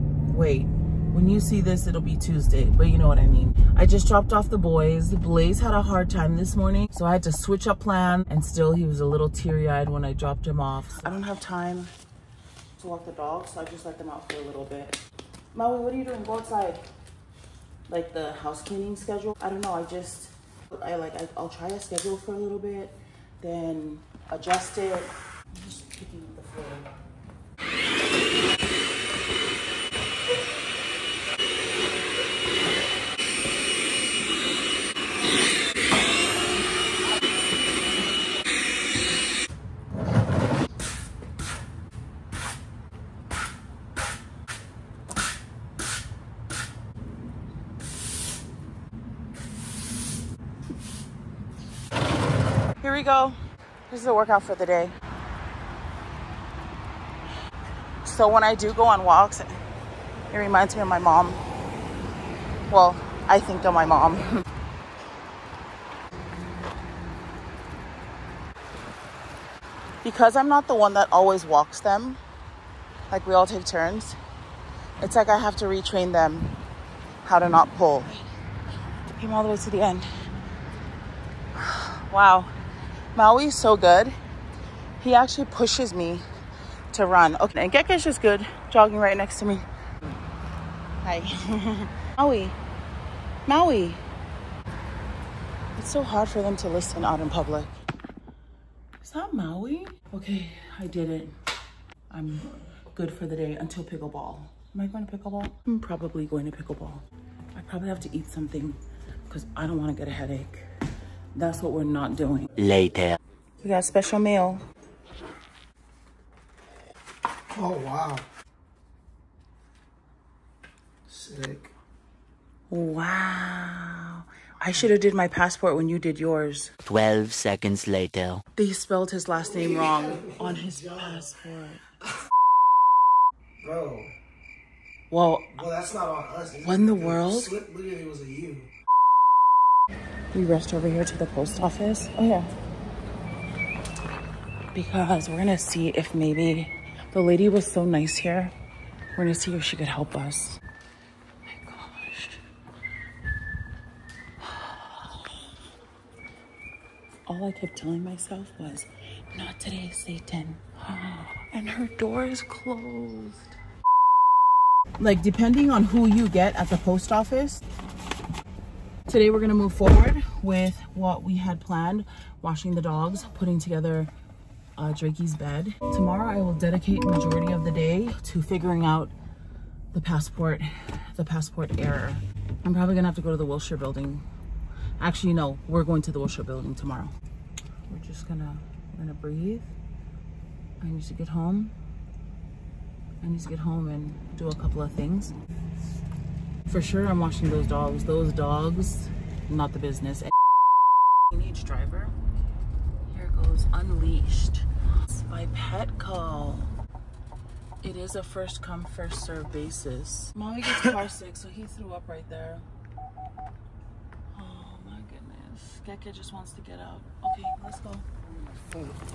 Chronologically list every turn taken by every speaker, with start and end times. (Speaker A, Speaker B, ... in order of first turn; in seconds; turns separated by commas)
Speaker A: 0.3-11.9, Speaker A: 12.8-15.0, Speaker A: 15.5-16.8, Speaker A: 17.9-26.9, Speaker A: 52.8-53.4, Speaker A: 53.9-55.0, Speaker A: 58.0-59.5, Speaker A: 60.3-61.4, Speaker A: 62.7-64.3, Speaker A: 70.0-72.2, Speaker A: 73.1-74.2, Speaker A: 75.0-76.5, Speaker A: 77.2-78.2, Speaker A: 79.2-80.1, Speaker A: 81.5-82.5, Speaker A: 83.1-84.2, Speaker A: 85.0-86.2, Speaker A: 86.9-89.7, Speaker A: 91.0-92.6, Speaker A: 93.5-94.0, Speaker A: 95.8-97.7, Speaker A: 99.0-101.3, Speaker A: 102.1-107.0, Speaker A: 107.5-110.7, Speaker A: 111.3-112.5, Speaker B: 112.6-113.2, Speaker A: 113.6-114.6, Speaker C: 117.5-118.2, Speaker C: 121.1-121.7, Speaker A: 122.7-126.7, Speaker B: 126.8-128.4, Speaker A: 128.6-131.8, Speaker C: 129.7-130.0, Speaker C: 133.6-134.1, Speaker A: 135.1-135.7, Speaker C: 135.6-138.7, Speaker A: 136.6-137.6, Speaker A: 140.3-142.5, Speaker A: 144.7-148.5, Speaker A: 149.2-150.6, Speaker A: 151.5-152.4, Speaker A: 154.4-155.3, Speaker A: 157.3-163.5, Speaker A: 165.0-167.6, Speaker A: 169.1-174.1, Speaker A: 174.8-179.1, Speaker A: 179.9-184.2, Speaker A: 185.0-187.1, Speaker A: 187.9-189.7, Speaker A: 190.8-191.7, Speaker A: 193.2-195.3, Speaker A: 196.7-200.3, Speaker A: 201.3-202.2, Speaker A: 203.1-206.7, Speaker A: 207.8-212.7, Speaker A: 214.3-218.1